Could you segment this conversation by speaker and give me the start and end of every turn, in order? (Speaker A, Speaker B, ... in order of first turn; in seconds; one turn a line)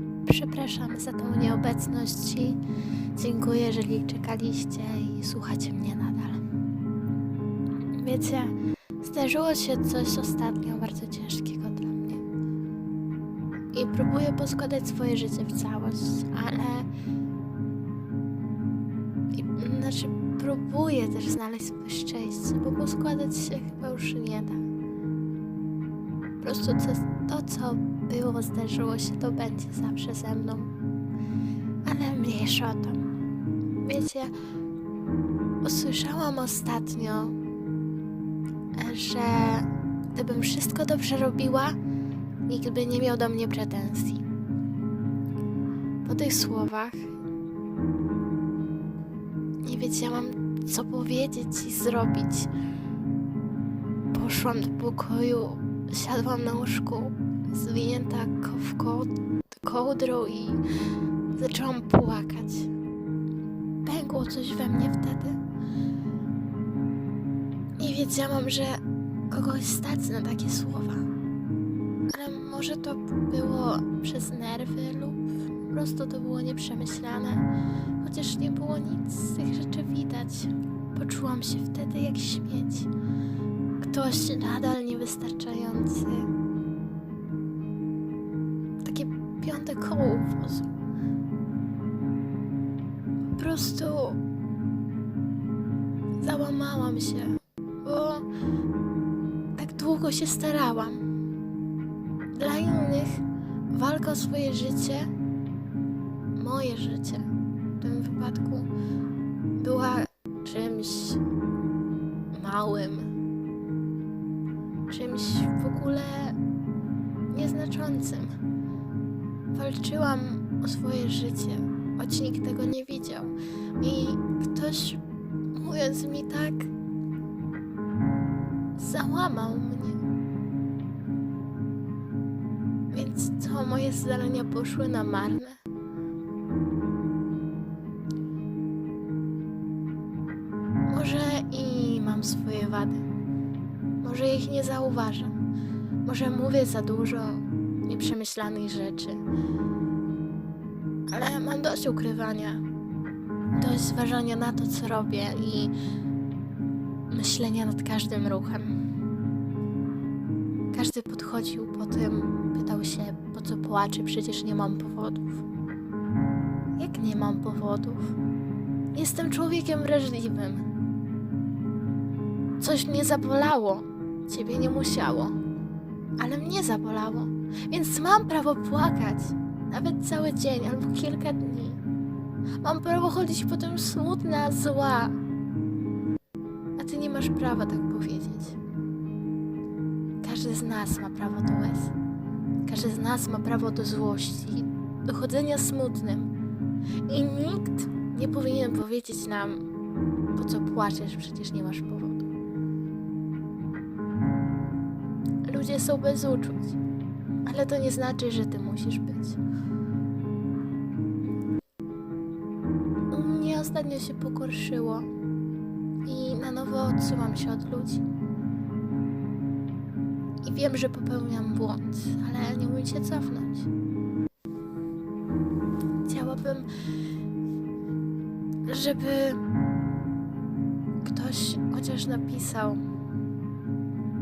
Speaker A: 0.2-2.6
Speaker A: 3.2-6.4
Speaker A: 8.0-12.2
Speaker A: 13.7-16.9
Speaker A: 19.3-24.6
Speaker A: 26.4-30.7
Speaker A: 31.9-33.0
Speaker A: 33.8-34.3
Speaker A: 35.6-37.4
Speaker A: 38.8-41.8
Speaker A: 42.5-44.2
Speaker A: 46.0-47.1
Speaker A: 49.6-52.5
Speaker A: 54.1-60.6
Speaker A: 61.4-62.7
Speaker A: 63.9-65.4
Speaker A: 67.8-71.1
Speaker A: 72.1-77.5
Speaker A: 78.0-82.9
Speaker A: 83.8-86.3
Speaker A: 88.8-90.7
Speaker A: 93.3-94.2
Speaker A: 96.2-98.2
Speaker A: 99.6-101.0
Speaker A: 102.3-105.1
Speaker A: 106.4-107.3
Speaker A: 107.8-108.7
Speaker A: 109.6-111.2
Speaker A: 112.3-113.1
Speaker A: 114.9-116.4
Speaker A: 117.3-118.3
Speaker A: 119.5-125.0
Speaker A: 125.5-126.7
Speaker A: 128.8-130.0
Speaker A: 132.9-135.6
Speaker A: 140.9-143.0
Speaker A: 144.0-145.3
Speaker A: 146.1-149.2
Speaker A: 151.1-152.6
Speaker A: 153.6-155.7
Speaker A: 157.1-158.7
Speaker A: 160.7-165.4
Speaker A: 166.8-168.2
Speaker A: 168.9-170.6
Speaker A: 172.6-175.4
Speaker A: 176.2-181.8
Speaker A: 182.6-185.2
Speaker A: 186.8-188.6
Speaker A: 190.2-191.9
Speaker A: 192.7-196.3
Speaker A: 197.1-199.6
Speaker A: 200.3-202.3
Speaker A: 205.4-206.8
Speaker A: 207.4-209.4
Speaker A: 213.1-215.1
Speaker A: 216.1-218.1
Speaker A: 220.4-223.7
Speaker A: 226.1-226.7
Speaker A: 228.7-229.4
Speaker A: 231.0-232.8